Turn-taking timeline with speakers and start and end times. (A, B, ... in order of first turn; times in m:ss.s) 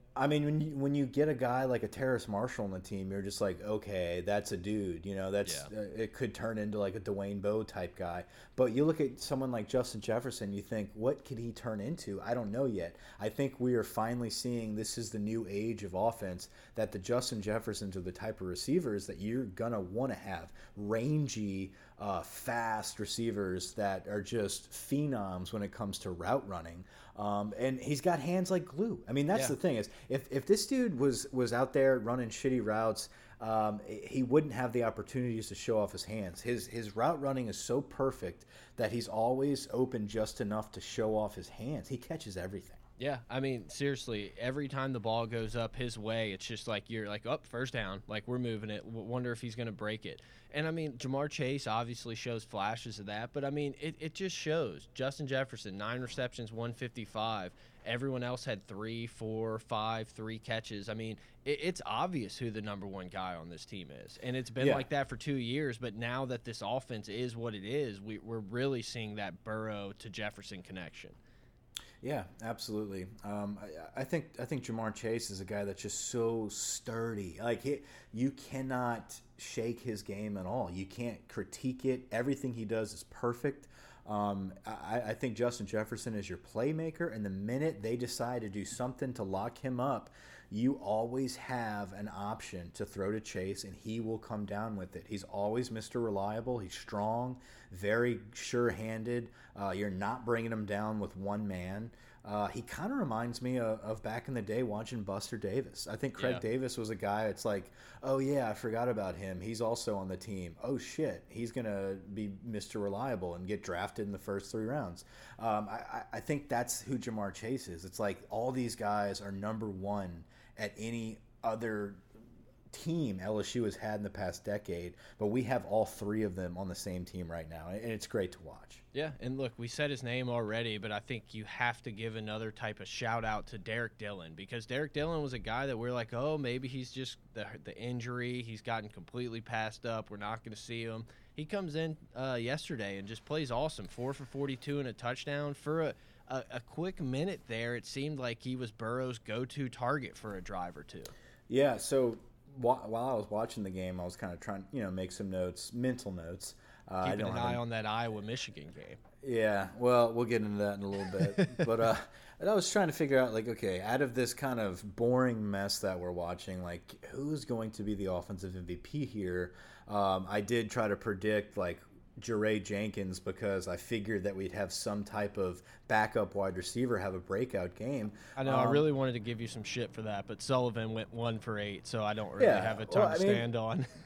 0:00.2-0:42.8 A
0:05.4-0:05.7 B
0:43.0-1:11.2 B
1:04.6-1:04.9 A
1:12.0-2:02.0 A
1:46.2-1:46.4 B
2:02.7-2:08.8 A
2:08.9-2:31.1 B
2:31.5-2:37.6 A
2:37.0-2:39.0 B
2:39.2-2:58.9 A
2:41.0-2:41.9 B
2:58.4-3:03.9 B
3:02.4-3:03.4 A